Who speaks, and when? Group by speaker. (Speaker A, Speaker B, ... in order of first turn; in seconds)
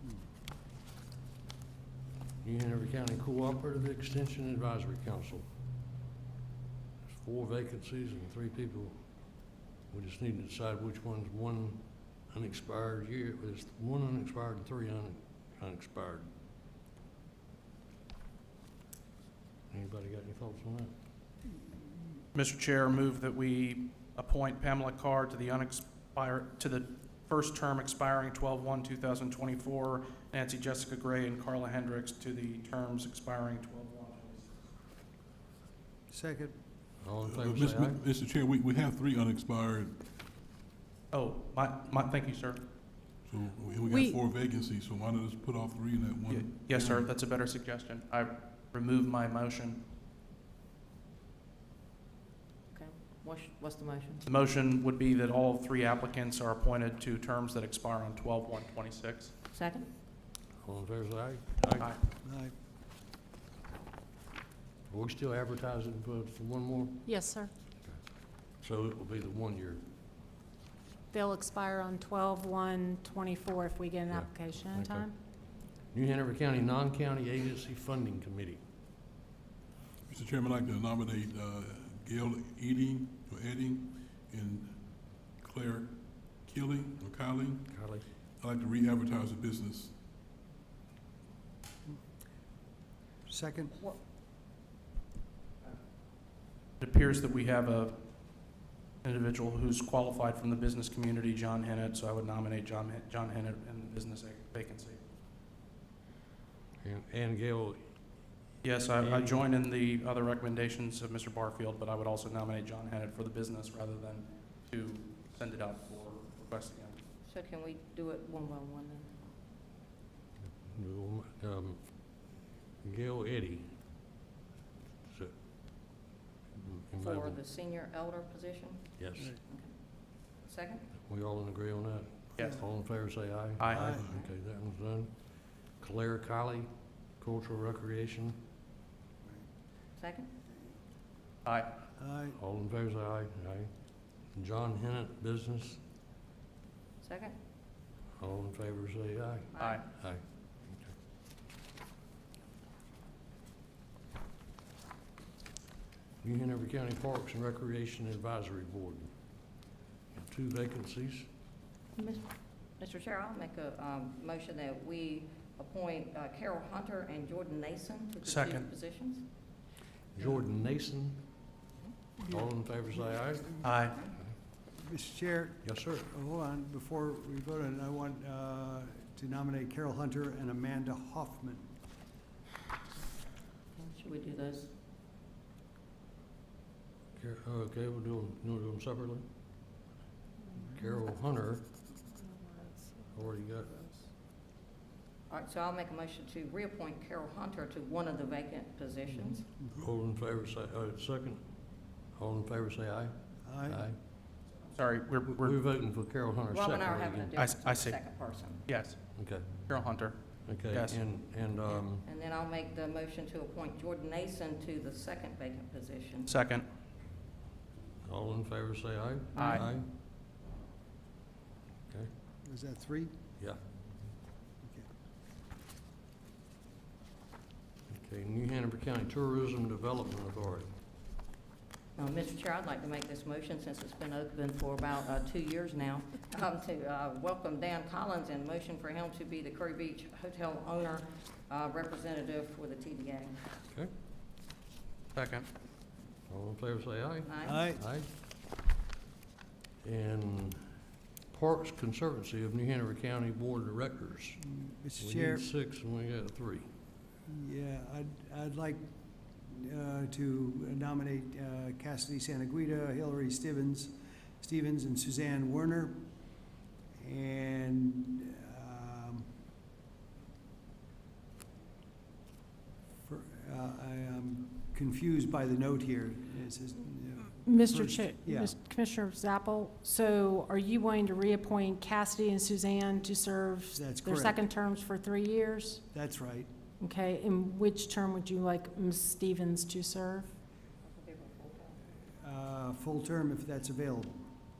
Speaker A: 2.4-5.5, 7.0-9.0, 9.9-16.3, 19.7-20.9, 37.0-38.0, 60.6-62.0, 64.9-67.1, 68.5-69.8, 74.1-75.1, 75.9-78.6, 87.7-88.0, 106.8-107.8, 109.0-109.5, 120.6-121.9, 122.8-123.8, 126.5-127.4, 129.0-129.3, 131.1-135.1, 135.8-138.4, 142.4-143.7, 144.3-145.8, 148.2-150.9, 156.2-159.1, 160.1-161.3, 170.2-171.3, 172.3-173.6, 175.6-176.1, 187.2-189.3, 190.8-191.7, 193.1-193.9, 199.8-201.4, 202.1-204.0, 205.2-207.3, 209.2-209.7, 210.4-212.1, 218.0-219.9, 227.9-230.7, 246.3-248.1, 249.8-250.7, 251.3-254.4, 255.0-256.7
Speaker B: 22.3-34.5, 41.1-42.6, 46.3-49.8, 54.3-59.3, 96.8-105.0, 108.6-117.0, 132.4-132.6, 133.6-133.9, 141.4-141.7, 168.2-168.7, 173.6-174.0, 204.8-205.6, 207.4-211.0, 216.3-216.7, 219.3-219.7, 245.1-245.5
Speaker C: 36.1-36.5, 62.2-62.5, 93.3-93.7, 133.7-134.0, 142.0-142.4, 174.8-181.7, 203.4-203.8, 222.4-223.1, 247.4-247.8, 254.5-255.5, 257.3-258.8, 259.5-266.0, 267.0-269.3, 273.0-278.6, 283.7-284.4, 285.9-286.5, 292.2-294.2
Speaker D: 37.2-40.0, 43.2-47.1, 80.1-90.0
Speaker E: 43.9-44.2, 67.0-67.5, 71.1-75.1, 192.1-193.1, 277.4-285.8, 286.8-290.3
Speaker F: 52.7-54.3, 59.5-59.9, 117.2-119.1, 127.0-128.9, 129.5-129.8, 130.4-130.9, 134.1-134.3, 140.0-140.3, 147.0-147.4, 149.5-149.8, 162.0-169.3, 183.8-184.7, 195.3-199.5, 206.5-208.6, 212.0-216.3, 219.3-219.7, 232.0-243.4, 247.2-247.6, 290.8-291.8